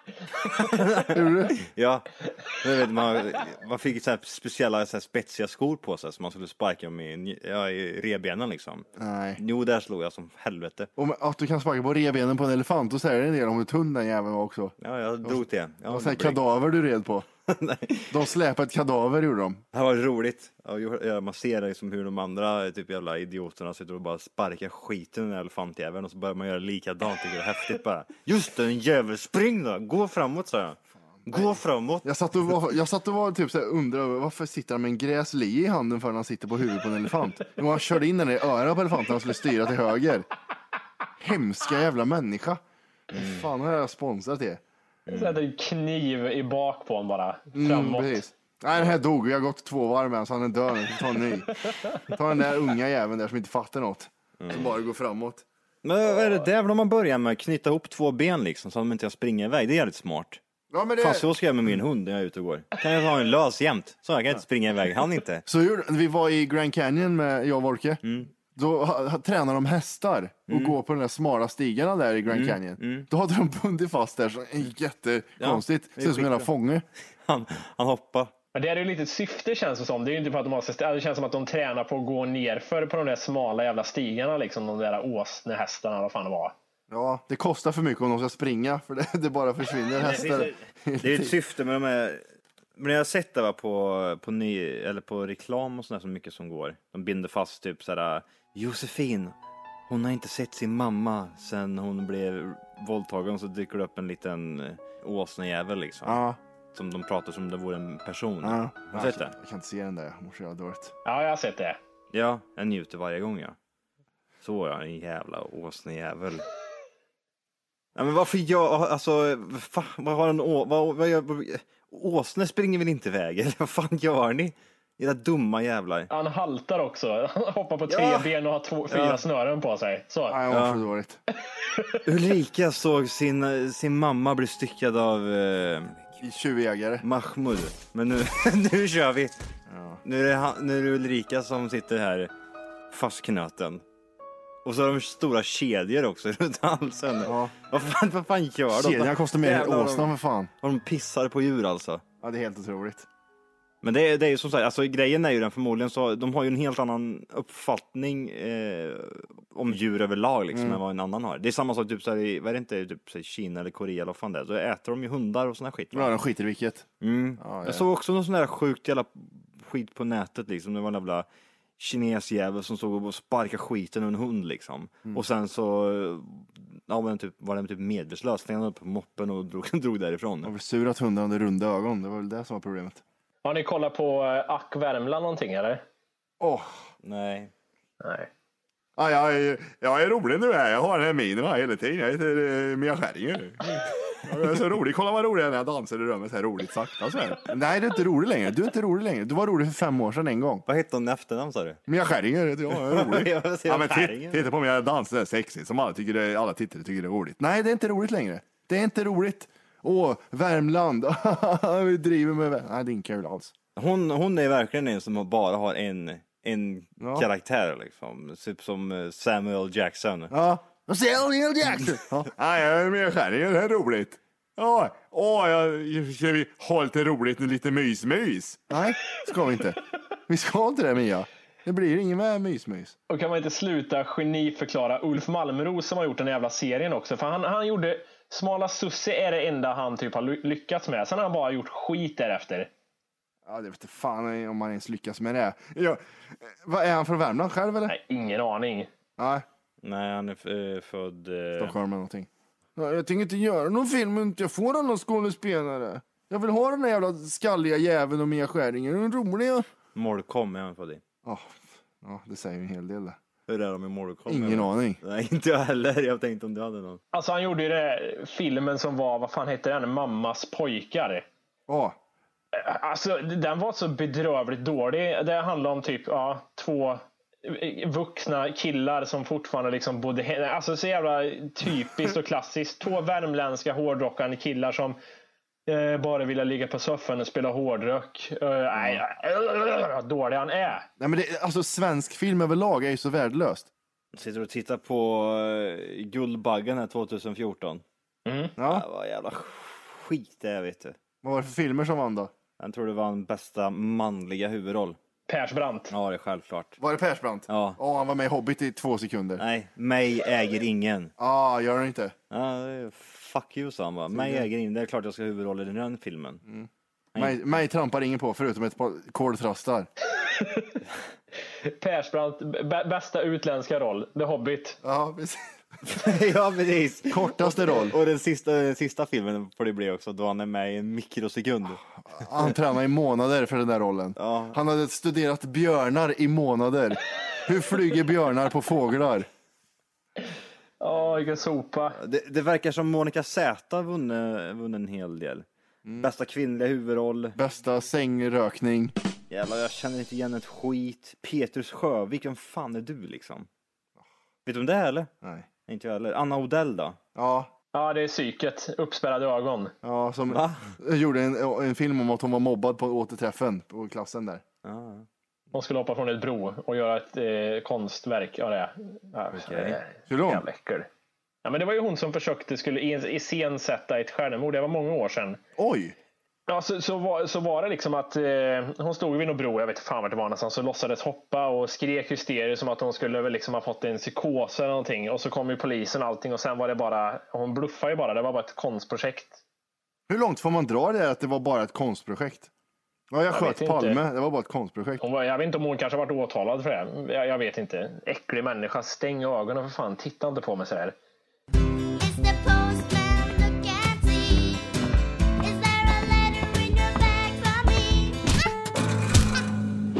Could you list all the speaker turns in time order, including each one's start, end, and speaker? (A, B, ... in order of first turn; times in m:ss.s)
0:00.5-0:08.8 A
0:01.0-0:01.6 B
0:09.0-0:09.4 B
0:09.4-0:10.9 A
0:11.0-0:17.3 B
0:14.8-0:16.4 A
0:17.5-0:18.2 A
0:18.1-0:19.6 B
0:19.7-0:32.1 A
0:31.2-0:40.2 B
0:41.2-0:44.6 B
0:43.1-0:43.4 A
0:45.1-0:45.4 A
0:45.1-0:48.2 C
0:47.5-0:55.4 B
0:54.4-0:54.7 A
0:55.8-1:00.4 A
1:00.7-1:01.3 B
1:01.0-1:05.4 A
1:05.4-1:16.8 B
1:08.0-1:08.3 A
1:10.5-1:10.8 A
1:12.3-1:13.1 A
1:15.4-1:16.5 A
1:17.3-1:18.3 A
1:18.5-1:26.5 C
1:26.9-1:31.3 B
1:30.0-1:32.2 A
1:32.8-1:39.3 A
1:39.9-1:46.2 A
1:46.0-1:46.4 B
1:46.7-1:49.3 A
1:48.4-1:50.9 B
1:51.0-1:51.8 C
1:52.1-1:53.6 A
1:54.4-1:56.4 A
1:58.0-2:06.1 A
2:06.1-2:10.4 C
2:07.9-2:08.3 A
2:08.9-2:09.2 A
2:10.3-2:11.2 B
2:10.5-2:10.8 A
2:11.5-2:12.0 C
2:12.0-2:16.0 A
2:16.2-2:17.0 B
2:17.0-2:19.4 A
2:19.7-2:20.0 B
2:20.0-2:22.3 A
2:22.9-2:23.8 A
2:24.6-2:30.1 A
2:27.2-2:27.5 B
2:28.7-2:30.5 B
2:30.6-2:32.0 A
2:32.2-2:33.1 B
2:33.8-2:46.1 A
2:40.5-2:40.8 B
2:45.9-2:46.9 B
2:47.0-2:51.2 A
2:47.4-2:47.8 B
2:51.8-3:00.5 A
3:00.4-3:03.0 B
3:03.4-3:05.8 C
3:06.4-3:06.8 B
3:07.0-3:07.5 A
3:08.0-3:08.3 C
3:09.0-3:20.6 B
3:20.7-3:21.8 A
3:21.9-3:33.5 B
3:22.7-3:24.5 A
3:33.8-3:40.3 A
3:37.0-3:37.3 B
3:40.3-3:52.9 B
3:53.1-4:02.7 C
4:03.4-4:08.0 B
4:07.9-4:08.9 C
4:09.2-4:09.4 B
4:09.8-4:11.7 A
4:11.6-4:19.7 B
4:19.9-4:21.0 A
4:21.2-4:23.2 B
4:23.5-4:27.0 A
4:24.3-4:25.0 B
4:27.1-4:31.2 C
4:31.7-4:32.0 B
4:32.5-4:45.0 C
4:45.7-4:50.9 C
4:51.0-4:53.7 B
4:54.1-4:57.8 A
4:58.2-4:58.5 C
4:58.6-4:58.8 B
4:58.6-5:01.0 A
5:01.2-5:02.3 B
5:02.6-5:05.0 A
5:05.3-5:05.9 C
5:05.9-5:06.8 A
5:06.8-5:09.4 B
5:07.5-5:07.8 A
5:09.4-5:11.1 A
5:11.2-5:12.1 B
5:12.3-5:16.4 A
5:14.1-5:14.5 B
5:16.4-5:19.9 B
5:17.1-5:17.4 A
5:20.2-5:20.8 C
5:21.6-5:24.8 C
5:24.8-5:25.4 B
5:25.8-5:32.5 A
5:27.1-5:28.0 B
5:32.0-5:39.3 B
5:34.2-5:34.6 A
5:40.8-5:42.0 C
5:42.0-5:45.4 A
5:45.8-5:46.1 B
5:46.0-5:47.4 A
5:47.4-5:48.9 B
5:49.3-5:53.5 A
5:54.4-5:55.1 A
5:55.2-5:55.5 B
5:55.7-5:57.0 A
5:57.1-5:57.5 B
5:57.7-5:59.7 C
5:59.8-6:04.4 B
6:00.3-6:00.7 A
6:04.6-6:05.0 A
6:05.5-6:10.9 C
6:09.3-6:09.8 A
6:10.1-6:10.4 B
6:11.4-6:15.4 C
6:15.6-6:15.9 B
6:16.5-6:29.4 C
6:30.1-6:32.5 B
6:33.1-6:35.0 B
6:33.3-6:34.0 C
6:35.0-6:41.0 C
6:41.9-6:44.8 D
6:45.4-6:48.4 D